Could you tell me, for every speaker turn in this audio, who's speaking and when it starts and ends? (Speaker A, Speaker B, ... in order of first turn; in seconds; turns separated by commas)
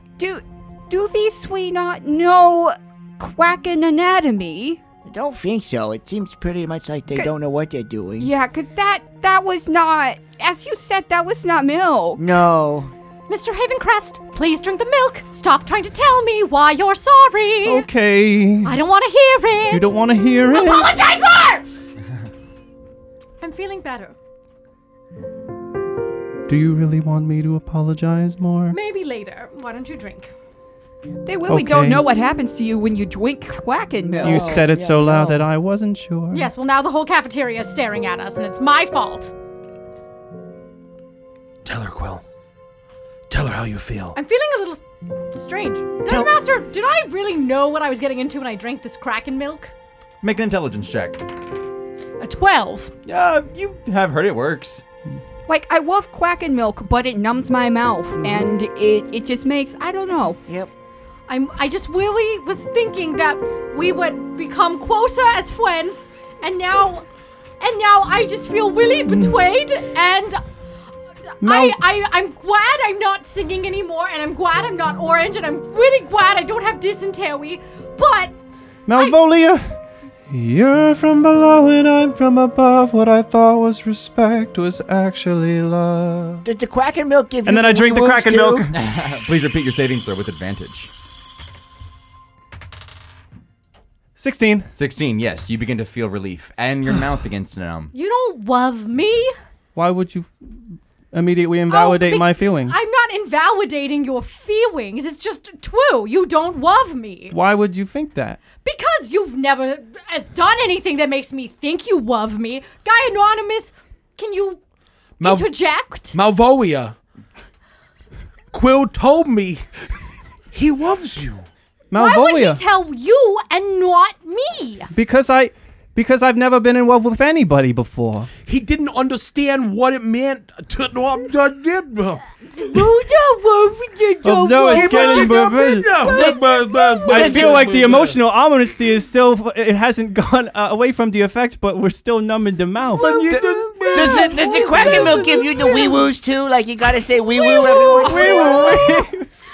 Speaker A: 0.2-4.8, Speaker B: 5.0-8.3, Speaker A: 8.2-12.3, Speaker B: 12.2-12.9, Speaker C: 13.3-17.9, Speaker D: 17.6-18.8, Speaker C: 18.6-19.9, Speaker D: 19.7-21.0, Speaker C: 20.5-21.6, Speaker C: 23.4-24.1, Speaker D: 26.5-28.8, Speaker C: 28.7-30.3, Speaker A: 31.2-34.7, Speaker D: 31.5-32.0, Speaker B: 34.1-35.5, Speaker D: 34.2-36.5, Speaker C: 36.3-39.3, Speaker E: 41.6-42.2, Speaker E: 43.3-44.2, Speaker C: 44.1-49.7, Speaker F: 50.2-51.2, Speaker C: 52.2-52.9, Speaker F: 53.1-54.8, Speaker A: 55.5-60.4, Speaker B: 58.2-58.5, Speaker B: 60.5-60.7, Speaker C: 61.3-67.1, Speaker C: 67.6-70.4, Speaker D: 69.1-69.4, Speaker C: 71.4-78.3, Speaker D: 71.4-71.8, Speaker D: 78.9-79.8, Speaker D: 80.3-86.4, Speaker B: 86.4-88.7, Speaker D: 87.5-88.7, Speaker F: 88.7-90.9, Speaker D: 94.2-94.7, Speaker F: 94.8-97.9, Speaker C: 97.9-99.3, Speaker D: 99.8-100.3, Speaker D: 101.1-102.8, Speaker C: 101.7-107.4, Speaker D: 107.3-108.4, Speaker C: 108.6-114.6, Speaker E: 115.2-115.5, Speaker C: 115.2-116.2, Speaker E: 116.0-117.0, Speaker E: 118.5-119.7, Speaker E: 120.5-121.5, Speaker D: 121.9-122.6, Speaker C: 121.9-124.9, Speaker D: 124.9-128.3, Speaker E: 128.4-132.8, Speaker C: 132.6-137.1, Speaker D: 134.2-136.3, Speaker E: 134.7-138.2, Speaker D: 137.1-143.4, Speaker B: 137.1-137.7, Speaker E: 143.0-145.0, Speaker C: 143.2-146.0, Speaker B: 143.9-148.8, Speaker C: 147.2-148.9, Speaker D: 147.9-149.3